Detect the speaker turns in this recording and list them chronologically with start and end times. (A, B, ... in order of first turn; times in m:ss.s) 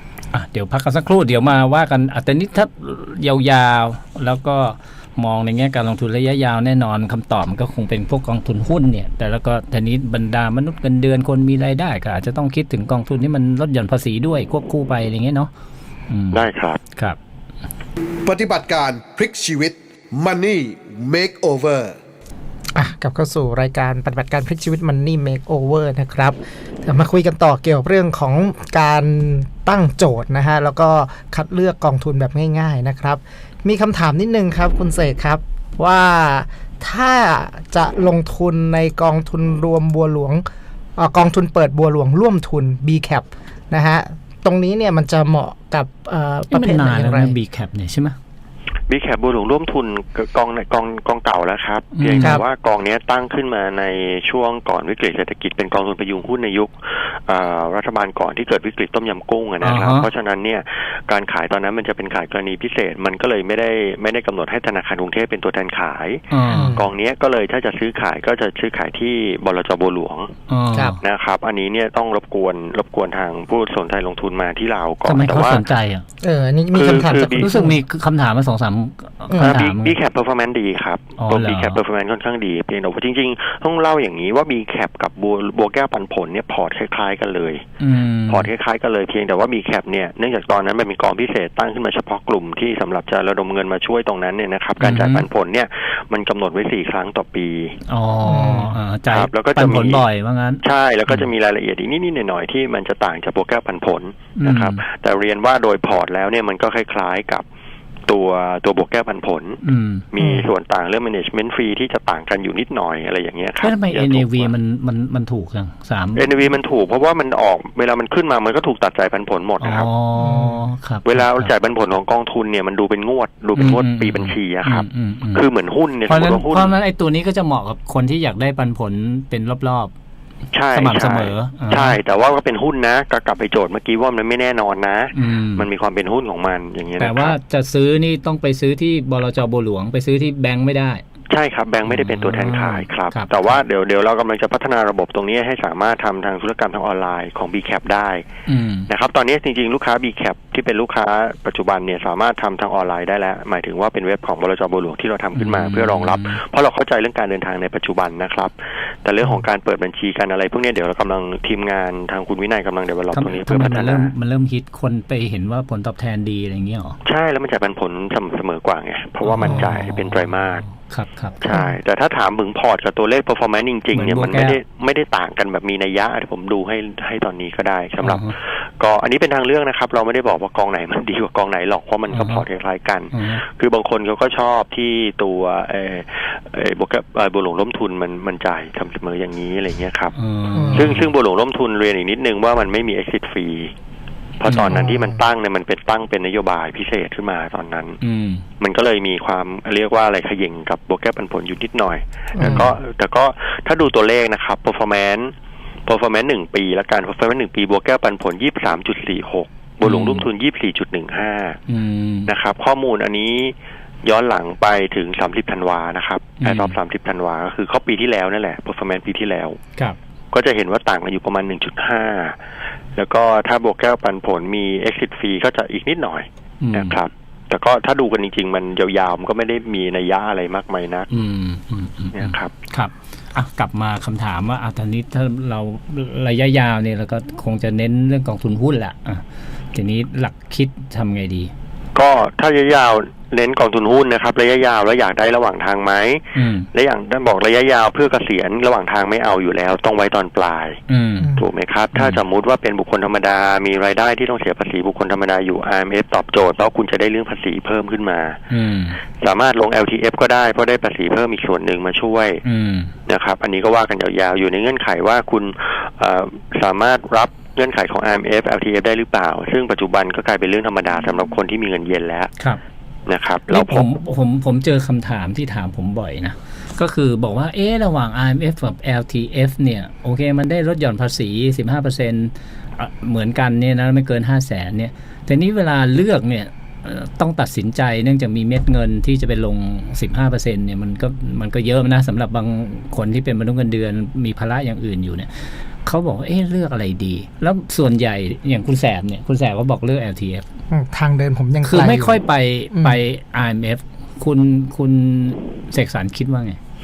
0:00.3-0:15.5 A
0:16.1-0:17.2 A
0:16.3-0:16.8 B
0:18.2-0:22.0 C
0:22.7-0:40.4 D
0:41.0-0:47.4 D
0:46.5-0:48.2 A
0:48.9-1:10.3 B
0:51.9-0:52.4 A
0:59.6-1:00.1 A
1:06.3-1:06.7 A
1:06.5-1:06.9 D
1:10.5-1:11.0 A
1:11.0-1:15.6 B
1:15.0-1:16.0 A
1:16.2-1:17.7 D
1:16.7-1:17.6 B
1:17.3-1:20.0 A
1:19.3-1:19.6 D
1:19.4-1:27.6 B
1:21.2-1:21.8 A
1:27.8-1:28.5 A
1:28.3-1:37.8 B
1:34.8-1:35.2 A
1:37.9-1:41.3 A
1:38.2-1:38.8 D
1:39.1-1:40.0 B
1:40.6-1:47.4 B
1:44.4-1:44.8 A
1:48.1-1:49.6 B
1:49.6-1:50.0 A
1:50.1-1:54.5 B
1:50.2-1:50.5 D
1:53.6-1:56.5 A
1:56.2-1:59.9 B
1:59.6-2:01.5 A
2:00.2-2:00.6 D
2:01.0-2:06.7 B
2:03.5-2:05.4 A
2:06.1-2:09.9 A
2:10.5-2:17.4 B
2:10.7-2:12.0 A
2:15.1-2:15.6 A
2:17.0-2:21.0 A
2:21.3-2:28.2 B
2:21.8-2:23.6 A
2:28.5-2:28.9 A
2:28.9-2:38.5 B
2:35.3-2:36.4 A
2:39.0-2:44.1 B
2:43.1-2:47.0 A
2:47.0-2:50.6 B
2:49.2-2:51.4 A
2:51.4-3:10.1 B
2:51.5-2:51.8 D
2:53.9-2:54.6 A
2:58.0-2:58.3 A
3:02.1-3:02.4 A
3:03.1-3:03.4 A
3:10.1-3:11.1 A
3:10.5-3:10.9 D
3:10.7-3:13.7 B
3:14.4-3:18.0 B
3:14.4-3:14.8 A
3:14.7-3:15.2 D
3:18.0-3:18.4 A
3:18.6-3:25.3 B
3:22.3-3:22.7 D
3:22.4-3:22.7 A
3:25.9-3:31.6 B
3:29.8-3:30.2 A
3:31.7-3:32.3 A
3:32.3-3:39.6 B
3:36.4-3:36.8 A
3:40.3-3:42.4 B
3:43.0-3:51.1 B
3:46.6-3:47.0 A
3:51.1-4:01.5 A
3:52.1-3:52.5 B
4:01.9-4:10.8 B
4:06.3-4:06.7 A
4:10.9-4:11.3 A
4:11.2-4:11.5 D
4:11.4-4:18.4 B
4:11.9-4:12.2 A
4:18.5-4:19.0 A
4:19.2-4:22.4 B
4:22.4-4:22.9 A
4:23.1-4:32.3 B
4:33.1-4:33.9 B
4:33.5-5:00.4 A
5:00.7-5:03.0 D
5:01.6-5:06.6 A